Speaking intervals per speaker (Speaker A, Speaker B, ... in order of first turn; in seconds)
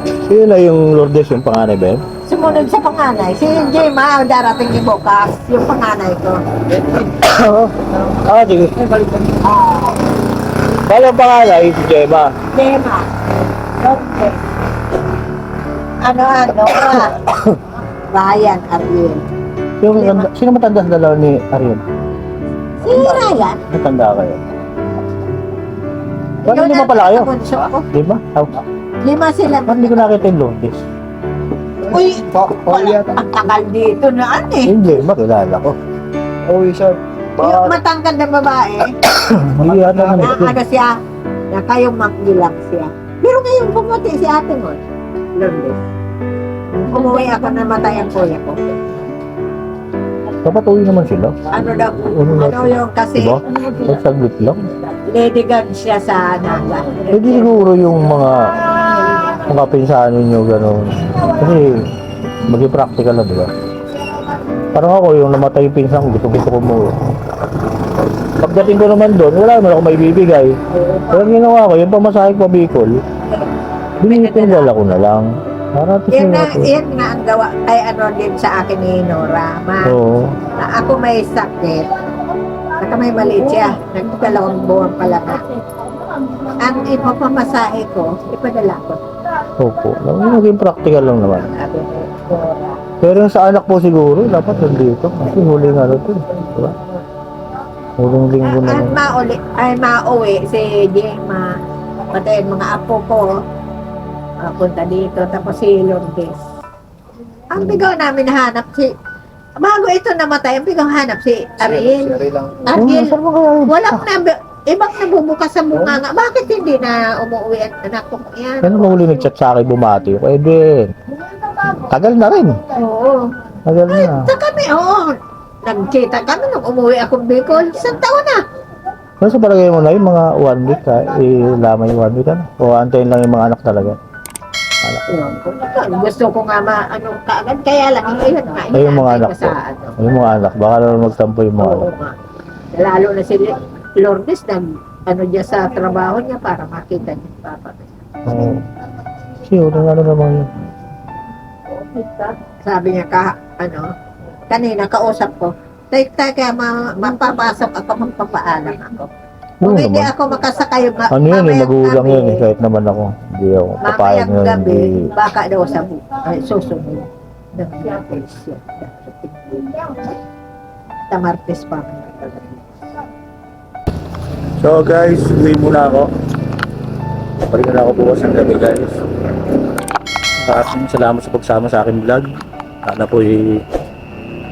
Speaker A: 0.1-2.0, 7.0-8.9, 10.8-12.3, 16.9-17.6, 19.8-21.8, 22.9-24.4, 26.5-27.3, 27.9-28.6, 29.7-30.8, 34.6-35.8, 39.0-40.6, 50.4-51.5, 52.0-54.7, 57.1-58.6, 59.3-61.9, 62.5-63.5, 64.7-67.0, 68.4-70.6, 71.1-73.0, 74.0-76.7, 79.9-80.4, 89.6-91.5, 93.0-96.8, 98.0-99.0, 107.6-107.8, 112.8-114.1, 118.6-120.9, 121.6-122.6, 123.7-124.3, 129.2-134.0, 138.7-141.9, 148.3-148.7, 149.5-150.5, 159.6-160.1, 161.1-165.1, 174.6-176.1, 177.5-179.0, 180.4-182.3, 182.8-183.6
Speaker B: 2.3-6.4, 9.4-10.0, 12.5-13.1, 13.8-14.3, 16.0-17.2, 18.1-19.2, 19.9-20.3, 22.8-23.6, 26.4-27.9, 29.0-30.2, 31.9-34.8, 37.4-39.0, 40.2-41.0, 41.5-44.8, 45.4-45.8, 46.7-48.7, 51.5-53.7, 55.1-57.8, 70.7-71.3, 73.2-73.5, 74.0-74.7, 76.1-80.0, 80.5-81.9, 82.8-85.4, 86.6-89.0, 91.5-92.8, 98.4-101.5, 102.1-103.3, 104.4-106.3, 107.5-108.9, 109.6-119.3, 122.7-123.3, 123.9-128.4, 135.1-140.0, 141.6-142.2, 142.7-148.0, 152.6-153.9, 154.5-159.1, 159.6-162.5, 163.8-170.1, 171.1-172.5
Speaker C: 32.0-33.1, 36.5-37.8, 39.6-40.3, 111.9-112.6